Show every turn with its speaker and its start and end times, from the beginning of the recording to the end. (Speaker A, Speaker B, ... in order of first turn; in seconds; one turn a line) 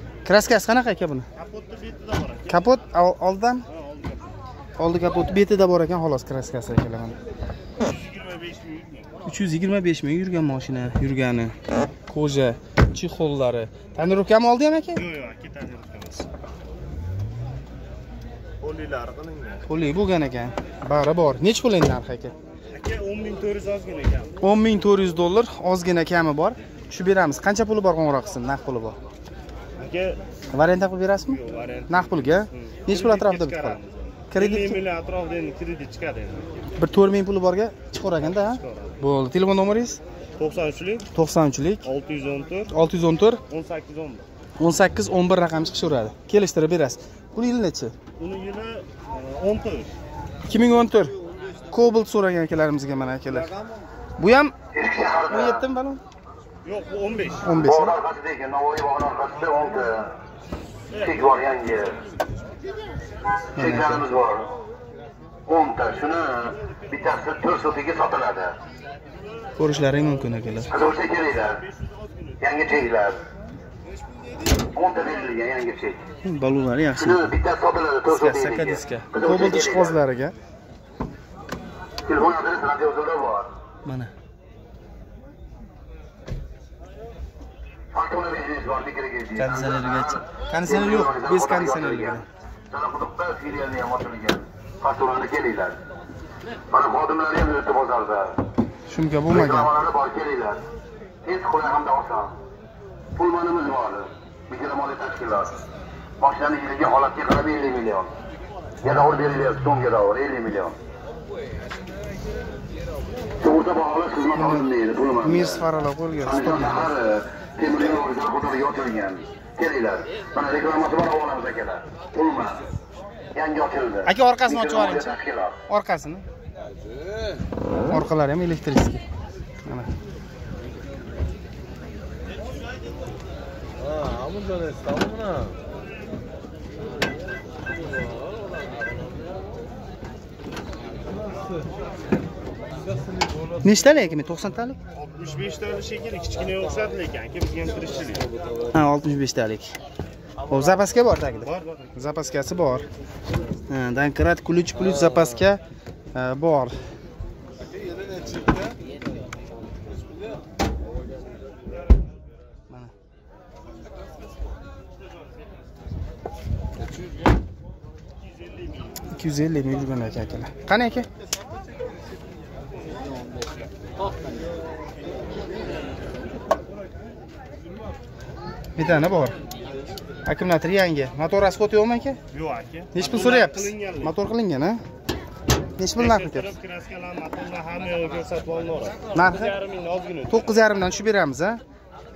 Speaker A: 0.2-1.3
Speaker B: 1.4-2.6
Speaker A: 2.5-3.6
Speaker B: 3.9-4.2
Speaker A: 4.8-7.2
Speaker B: 7.9-9.1
Speaker A: 9.2-11.5
Speaker A: 12.1-15.0
Speaker B: 14.9-16.3
Speaker B: 18.6-19.6
Speaker A: 19.6-22.3
Speaker B: 22.7-24.3
Speaker A: 24.4-29.0
Speaker B: 29.8-30.2
Speaker A: 30.5-33.8
Speaker B: 31.3-36.5
Speaker A: 34.3-34.8
Speaker A: 36.8-40.0
Speaker B: 38.2-39.0
Speaker B: 40.4-41.0
Speaker A: 41.1-41.9
Speaker B: 41.8-42.7
Speaker A: 42.7-43.4
Speaker B: 43.5-44.2
Speaker A: 44.6-47.9
Speaker B: 48.2-49.9
Speaker A: 50.5-51.1
Speaker A: 51.7-53.5
Speaker A: 54.2-54.5
Speaker C: 54.7-55.6
Speaker A: 55.3-56.0
Speaker B: 56.6-57.5
Speaker A: 57.4-58.0
Speaker C: 57.6-60.1
Speaker C: 60.9-62.0
Speaker A: 63.5-64.0
Speaker C: 63.6-64.5
Speaker C: 65.5-68.5
Speaker A: 69.6-70.7
Speaker C: 70.7-71.6
Speaker C: 72.4-73.2
Speaker C: 74.7-76.0
Speaker A: 76.2-77.4
Speaker C: 77.0-80.0
Speaker A: 78.1-80.3
Speaker C: 82.0-83.5
Speaker A: 83.8-84.1
Speaker C: 87.9-90.1
Speaker A: 89.3-92.2
Speaker C: 90.6-95.8
Speaker C: 96.7-98.4
Speaker A: 98.9-99.7
Speaker C: 99.3-100.6
Speaker C: 101.2-102.4
Speaker C: 103.2-105.5
Speaker C: 106.2-108.1
Speaker C: 108.8-110.8
Speaker C: 113.4-115.6
Speaker A: 114.3-114.7
Speaker A: 115.2-116.9
Speaker C: 116.2-122.6
Speaker C: 123.3-125.5
Speaker A: 124.0-125.2
Speaker A: 125.7-126.2
Speaker A: 127.9-129.0
Speaker A: 143.6-144.8
Speaker B: 145.0-148.2
Speaker A: 148.7-149.8
Speaker A: 150.5-152.9
Speaker B: 151.4-151.8
Speaker A: 153.7-155.6
Speaker A: 156.1-156.7
Speaker A: 169.1-171.1
Speaker A: 178.8-179.3
Speaker A: 180.2-182.2
Speaker B: 182.3-184.1
Speaker A: 182.9-184.8
Speaker A: 185.8-186.5
Speaker B: 186.0-190.6
Speaker A: 189.1-189.6
Speaker A: 190.3-191.6